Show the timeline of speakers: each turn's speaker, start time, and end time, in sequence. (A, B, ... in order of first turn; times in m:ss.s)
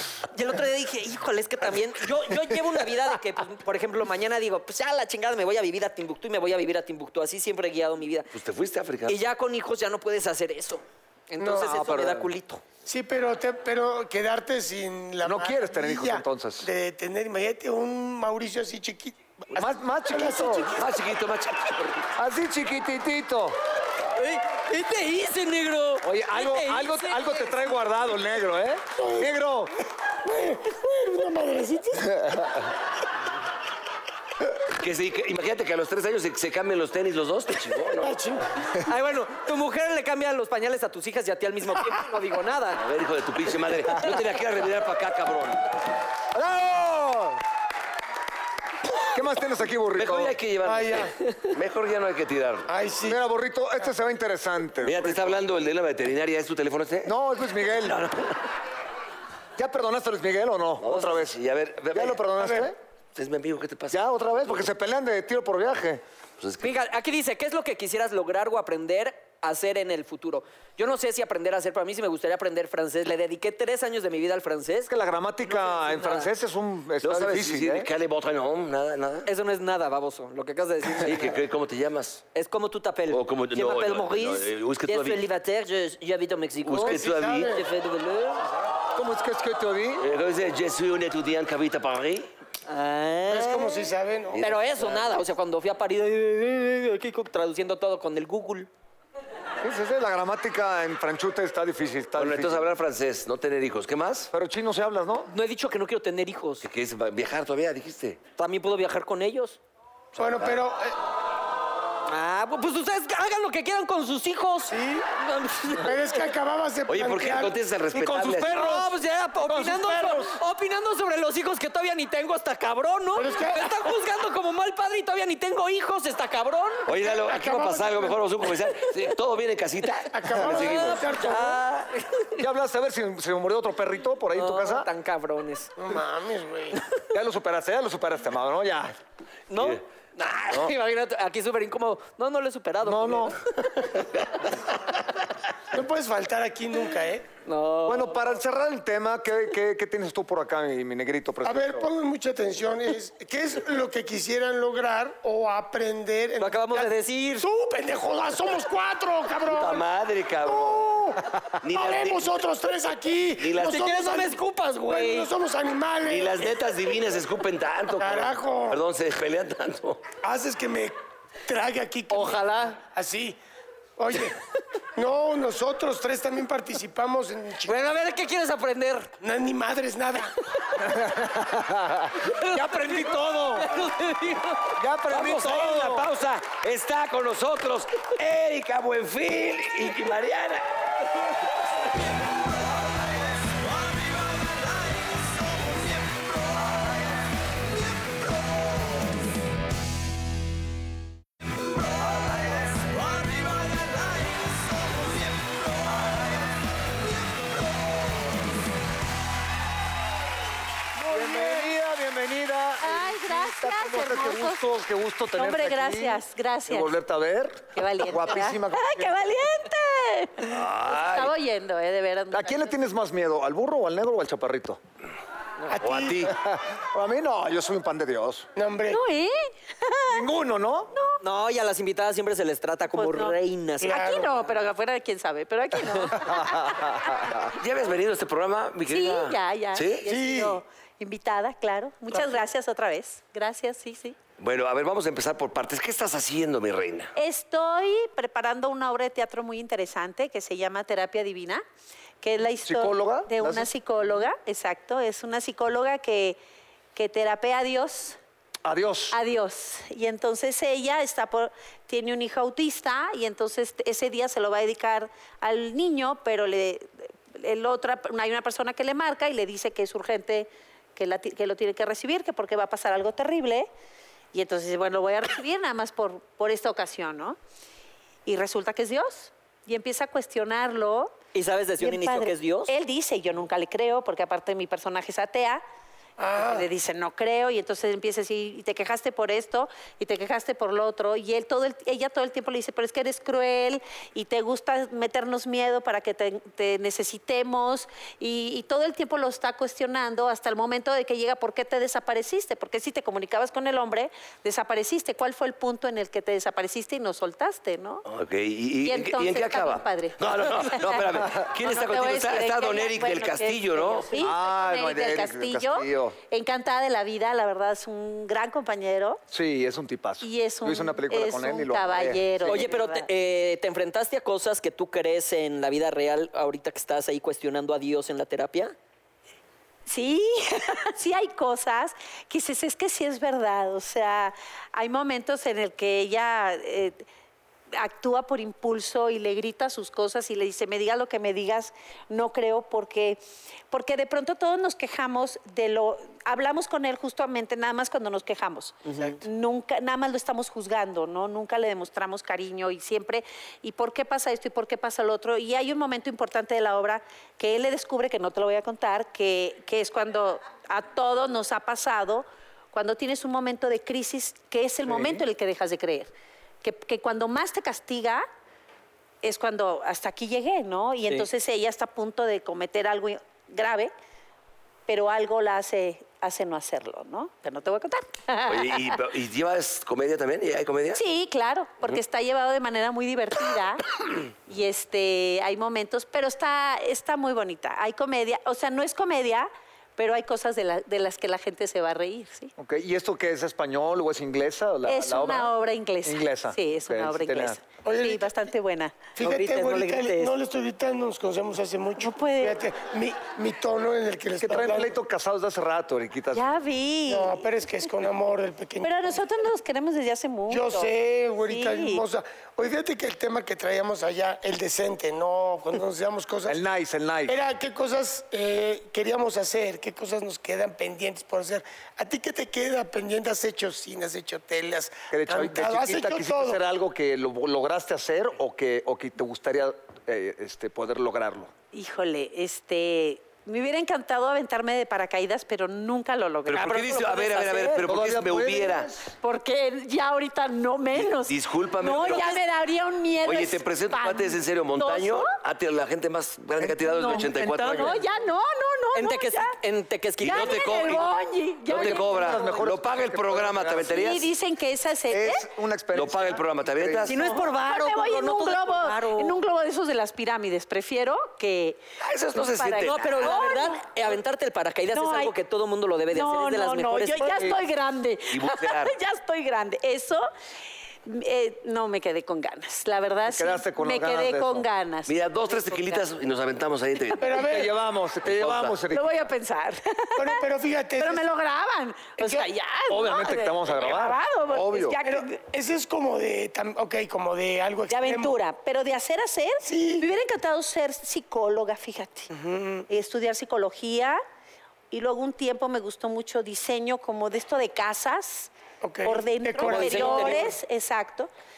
0:00.3-0:08.3 A
0:08.3-0:09.2 B
0:09.1-0:12.6 A
0:11.4-0:11.7 C
0:11.6-0:12.3 D
0:12.8-0:20.9 C
0:15.2-0:16.7 D
0:19.5-0:20.8 D
0:20.8-0:22.1 B
0:22.2-0:23.6 D
0:24.2-0:27.6 A
0:26.0-0:29.7 D
0:29.0-0:29.3 C
0:30.2-0:32.2 C
0:34.7-0:38.1 B
0:38.0-0:38.5 C
0:38.8-0:42.8 A
0:42.8-0:45.6 B
0:46.3-0:47.4 D
0:49.1-0:50.4 D
0:50.0-0:52.7 B
0:50.6-0:51.1 C
0:52.7-0:53.2 C
0:53.0-0:55.4 D
0:54.8-0:57.1 B
0:57.0-0:58.0 D
0:57.7-0:58.4 B
0:59.6-1:01.4 D
1:00.8-1:02.3 B
1:01.9-1:02.8 D
1:02.4-1:02.7 C
1:03.1-1:04.0 B
1:03.9-1:06.0 D
1:06.4-1:06.8 B
1:06.6-1:14.9 A
1:14.9-1:17.9 D
1:15.4-1:16.3 A
1:17.0-1:19.3 B
1:19.2-1:21.4 A
1:21.0-1:22.2 B
1:22.3-1:28.4 A
1:23.1-1:25.2 B
1:26.6-1:27.6 B
1:26.8-1:27.7 C
1:29.0-1:30.0 D
1:30.0-1:32.3 B
1:32.7-1:33.9 A
1:33.3-1:34.4 C
1:34.3-1:35.1 B
1:34.4-1:38.7 A
1:39.6-1:42.7 D
1:42.2-1:44.3 B
1:44.3-1:45.3 D
1:45.3-1:46.6 A
1:46.6-1:48.2 B
1:48.4-1:49.6 A
1:50.2-1:50.6 B
1:50.2-1:51.0 C
1:52.1-1:56.0 A
1:54.7-1:55.0 C
1:55.8-1:57.6 C
1:56.9-1:58.6 B
1:57.9-2:00.4 D
1:58.4-2:06.9 A
2:03.1-2:03.7 C
2:06.9-2:11.2 B
2:07.0-2:08.2 C
2:10.1-2:11.6 C
2:10.4-2:12.4 A
2:12.4-2:14.9 D
2:14.4-2:15.7 A
2:15.8-2:16.8 C
2:17.1-2:19.0 D
2:19.5-2:23.4 A
2:22.8-2:23.9 D
2:25.7-2:27.3 C
2:27.4-2:28.2 A
2:27.8-2:31.9 D
2:31.4-2:39.8 C
2:36.4-2:37.5 A
2:39.4-2:40.9 B
2:40.4-2:46.5 C
2:41.6-2:42.4 B
2:43.4-2:43.8 B
2:43.6-2:45.3 A
2:46.0-2:50.0 B
2:48.0-2:48.8 C
2:50.2-2:53.4 C
2:52.1-2:52.8 A
2:54.0-2:54.4 C
2:55.0-2:57.8 C
2:57.6-2:59.1 A
2:59.2-3:00.3 C
3:00.8-3:03.8 D
3:02.2-3:04.8 A
3:04.8-3:06.1 D
3:05.1-3:10.7 B
3:31.0-3:39.2 D
3:32.8-3:34.6 E
3:35.3-3:37.0 E
3:37.8-3:42.7 E
3:40.4-3:41.3 B
3:42.3-3:44.8 D
3:45.7-3:46.3 C
3:45.8-3:46.3 B
3:46.3-3:48.5 D
3:48.6-3:49.0 C
3:48.9-3:50.2 E
3:50.1-3:50.9 D
3:50.9-3:51.2 E
3:51.2-3:54.0 A
3:52.9-3:57.2 E
3:53.8-3:54.3 C
3:56.2-3:57.4 D
3:57.5-4:00.1 B
3:58.9-4:04.2 E
4:00.1-4:00.6 C
4:04.4-4:07.1 B
4:07.2-4:11.6 E
4:12.2-4:16.4 E
4:12.6-4:13.7 D
4:16.9-4:18.2 E
4:18.6-4:19.2 D
4:19.1-4:33.7 E
4:34.3-4:37.4 E
4:38.2-4:41.2 E
4:41.3-4:42.7 A
4:41.8-4:45.6 E
4:46.2-4:46.7 C
4:46.4-5:08.0 E
5:08.1-5:14.2 B
5:08.8-5:19.2 E
5:14.2-5:16.2 D
5:19.3-5:22.7 D
5:20.2-5:23.1 E
5:22.5-5:28.8 A
5:29.8-5:37.0 E
5:37.8-6:06.1 E
6:06.6-6:08.2 E
6:09.2-6:13.9 E
6:14.9-6:19.0 E
6:18.5-6:21.0 B
6:20.9-6:23.8 E
6:24.5-6:32.5 E
6:32.6-6:35.5 D
6:34.8-6:39.2 E
6:36.0-6:37.6 D
6:37.8-6:38.3 C
6:39.2-6:44.9 C
6:39.2-6:40.3 A
6:42.0-6:42.6 E
6:44.4-6:46.5 D
6:46.3-6:47.4 E
6:47.1-6:49.2 C
6:48.8-6:50.9 E
6:50.5-6:56.6 C
6:51.5-6:52.0 E
6:56.5-6:57.4 D
6:57.3-7:06.6 C
7:05.1-7:11.5 D
7:11.7-7:17.8 E
7:16.5-7:18.9 B
7:17.8-7:19.1 D
7:19.2-7:25.3 E
7:21.2-7:22.4 B
7:23.2-7:28.0 B
7:26.6-7:27.7 D
7:27.0-7:29.6 E
7:27.0-7:28.0 A
7:28.9-7:30.7 A
7:30.2-7:32.6 E
7:30.2-7:31.1 B
7:31.7-7:34.3 B
7:31.7-7:34.1 D
7:33.9-7:35.5 E
7:35.1-7:37.1 D
7:35.9-7:37.2 B
7:37.1-7:39.4 A
7:37.1-7:41.8 E
7:42.0-7:43.5 B
7:42.3-7:43.8 E
7:42.8-7:47.5 A
7:44.9-7:45.3 E
7:46.1-7:50.3 E
7:48.3-7:49.0 B
7:51.0-7:56.0 E
7:53.3-7:54.7 D
7:55.1-7:57.4 B
7:57.2-7:57.7 C
7:57.4-7:59.2 D
7:58.4-7:58.7 B
7:58.8-8:00.4 E
8:00.2-8:01.2 C
8:01.0-8:05.4 E
8:02.2-8:02.5 C
8:02.9-8:05.0 D
8:05.0-8:08.4 C
8:07.9-8:12.3 E
8:09.6-8:10.1 C
8:12.3-8:12.9 C
8:12.9-8:14.2 E
8:14.9-8:18.5 E
8:18.8-8:20.5 C
8:19.0-8:21.3 E
8:19.6-8:20.5 A